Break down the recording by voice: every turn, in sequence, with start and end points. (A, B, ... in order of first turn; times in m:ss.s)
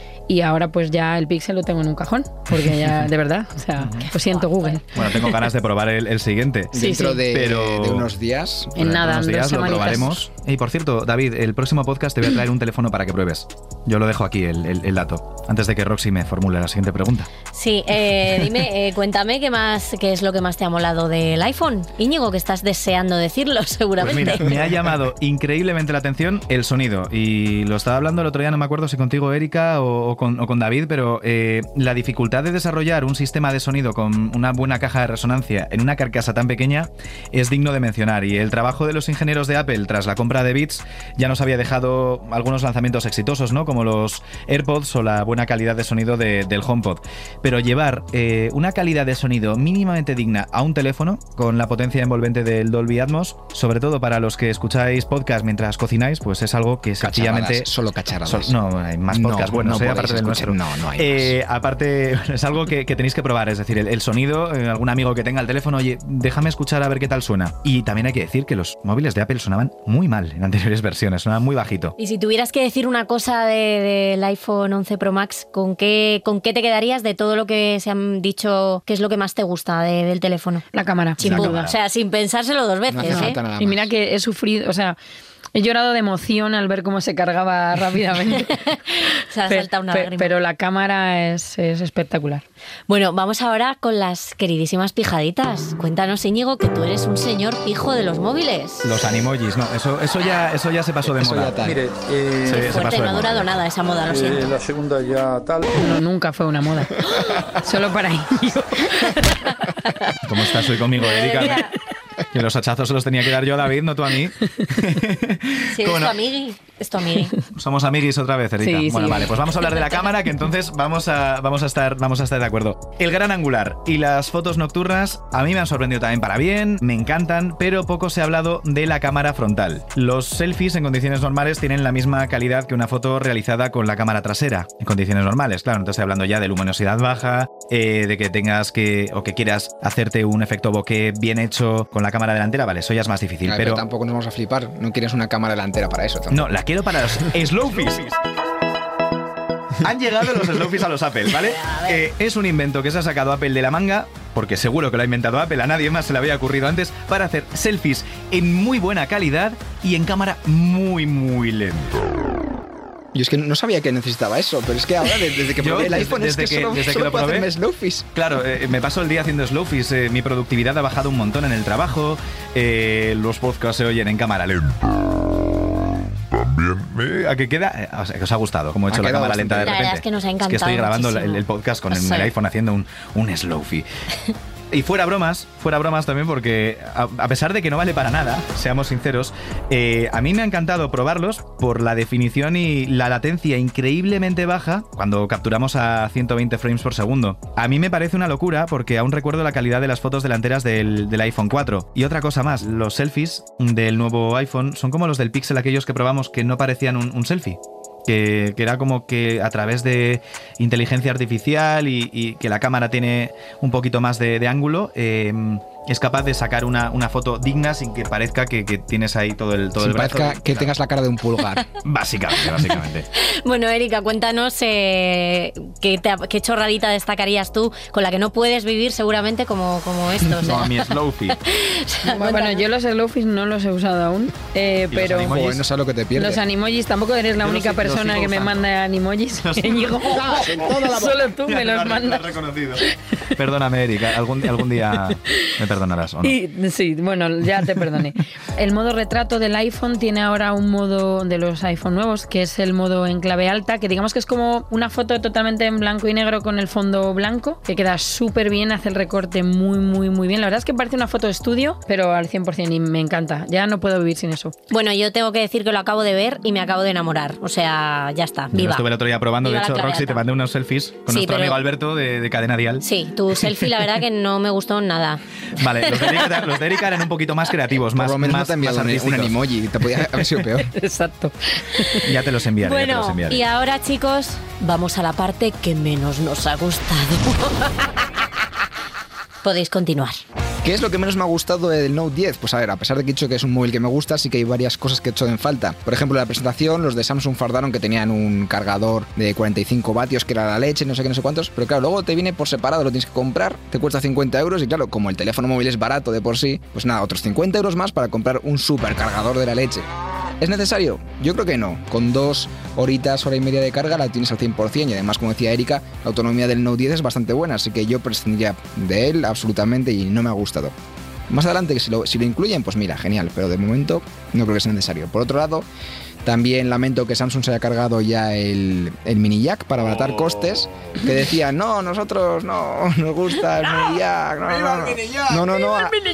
0:00.3-0:04.8 A
0:03.8-0:04.1 B
0:04.1-0:05.0 C
0:04.9-0:06.7 B
0:06.7-0:08.8 D
0:06.7-0:07.2 A
0:07.3-0:08.1 B
0:08.8-0:10.1 A
0:08.8-0:17.3 B
0:17.5-0:24.7 C
0:24.0-0:57.7 B
0:57.0-0:58.5 D
0:58.2-1:11.9 B
0:59.1-1:01.4 D
1:12.0-1:20.6 C
1:20.7-1:21.6 A
1:21.2-1:23.4 C
1:21.2-1:21.8 B
1:22.9-1:23.9 D
1:23.1-1:25.0 A
1:25.5-1:28.5 A
1:28.4-1:30.3 C
1:29.5-1:32.4 A
1:32.9-1:38.9 C
1:38.8-1:41.6 B
1:41.1-1:41.8 D
1:41.6-1:42.6 E
1:42.4-1:44.5 C
1:42.4-1:43.5 B
1:44.1-1:46.0 E
1:45.7-1:47.0 A
1:47.6-1:50.0 A
1:50.2-1:51.6 B
1:51.0-1:51.8 C
1:52.3-1:56.2 B
1:55.7-1:57.3 C
1:57.5-2:23.8 B
1:58.6-1:59.3 A
1:59.7-2:00.0 C
2:23.4-2:26.5 D
2:26.3-2:28.2 B
2:29.8-2:42.0 B
2:31.6-2:31.9 C
2:43.1-2:48.0 D
2:45.6-2:47.5 B
2:48.1-2:54.8 B
2:56.5-3:03.8 B
2:58.9-2:59.8 D
2:59.6-3:02.3 C
3:04.7-3:40.7 B
3:39.8-3:41.6 D
3:41.8-3:43.1 B
3:43.2-3:52.6 C
3:50.3-3:51.4 B
3:52.1-3:55.3 A
3:54.9-3:55.6 B
3:55.2-3:56.4 D
3:56.1-4:02.3 A
3:57.4-3:58.6 B
3:59.4-4:06.4 B
4:00.3-4:00.9 D
4:06.2-4:24.5 A
4:24.7-4:28.8 C
4:28.5-4:32.8 B
4:29.4-4:30.2 C
4:31.1-4:31.6 C
4:32.8-4:35.2 C
4:35.6-4:39.4 B
4:35.8-4:36.4 C
4:37.9-4:40.7 D
4:40.7-4:42.0 A
4:42.0-4:43.4 B
4:42.6-4:47.9 C
4:49.4-4:50.2 C
4:50.6-5:09.8 D
5:10.4-5:20.7 D
5:21.3-5:25.6 D
5:26.2-5:36.0 D